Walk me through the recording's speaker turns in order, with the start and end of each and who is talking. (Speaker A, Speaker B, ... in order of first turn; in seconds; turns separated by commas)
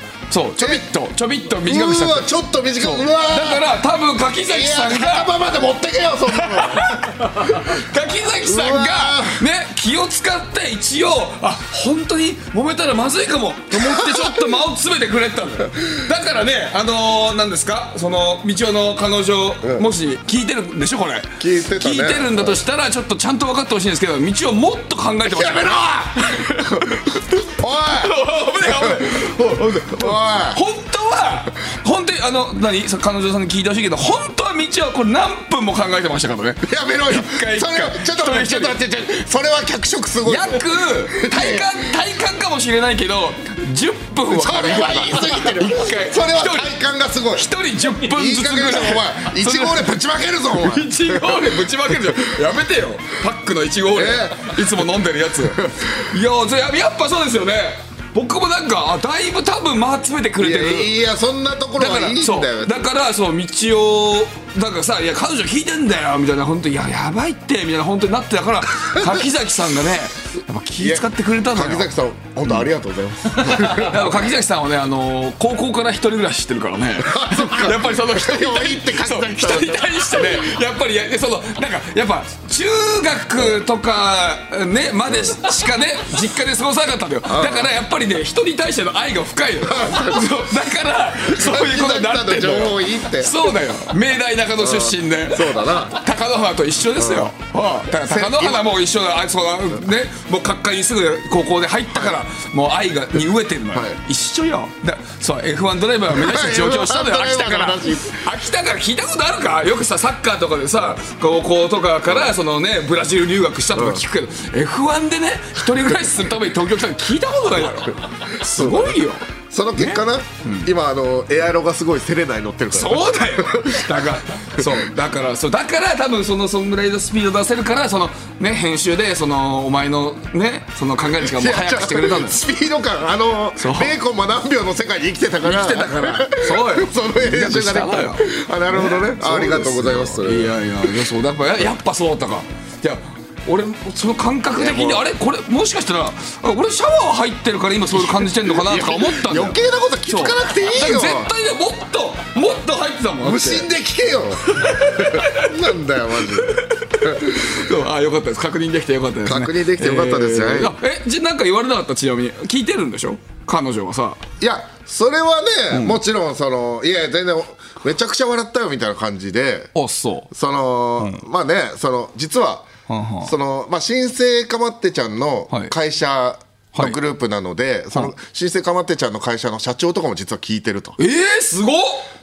Speaker A: 0.3-5.3, Speaker B: 0.6-0.8, Speaker B: 1.6-3.7, Speaker B: 4.4-7.8, Speaker A: 6.4-27.2, Speaker B: 8.4-9.4, Speaker B: 13.7-14.3, Speaker B: 21.4-22.6, Speaker B: 25.3-30.6, Speaker A: 27.8-38.8, Speaker B: 36.6-41.7, Speaker A: 40.2-46.7, Speaker B: 44.3-51.5, Speaker A: 47.3-49.9, Speaker A: 50.5-60.9, Speaker B: 53.9-54.7, Speaker B: 55.5-55.7, Speaker B: 60.4-62.9, Speaker A: 61.8-71.9, Speaker B: 69.0-69.2, Speaker B: 70.8-74.2, Speaker A: 73.4-120.7, Speaker B: 77.0-80.5, Speaker B: 85.1-85.4, Speaker B: 87.3-87.8, Speaker B: 89.6-90.5, Speaker B: 91.2-93.5, Speaker B: 94.6-96.0, Speaker B: 97.0-97.3, Speaker B: 97.9-98.8, Speaker B: 101.9-102.2, Speaker B: 106.1-108.2, Speaker B: 112.1-112.3, Speaker B: 113.7-114.0, Speaker B: 118.5-119.0, Speaker B: 119.5-124.0, Speaker A: 122.7-132.4, Speaker B: 131.2-141.0, Speaker A: 133.6-133.9, Speaker A: 135.4-153.7, Speaker B: 144.5-145.1, Speaker B: 147.9-151.3, Speaker B: 153.2-157.6, Speaker A: 154.6-155.5, Speaker A: 156.5-164.2, Speaker B: 159.2-160.8, Speaker B: 164.4-169.7, Speaker A: 165.7-166.0, Speaker A: 169.8-170.3, Speaker B: 170.3-172.7, Speaker A: 171.0-171.2, Speaker A: 172.9-173.3, Speaker B: 173.2-181.0, Speaker A: 176.7-177.0, Speaker A: 181.0-182.1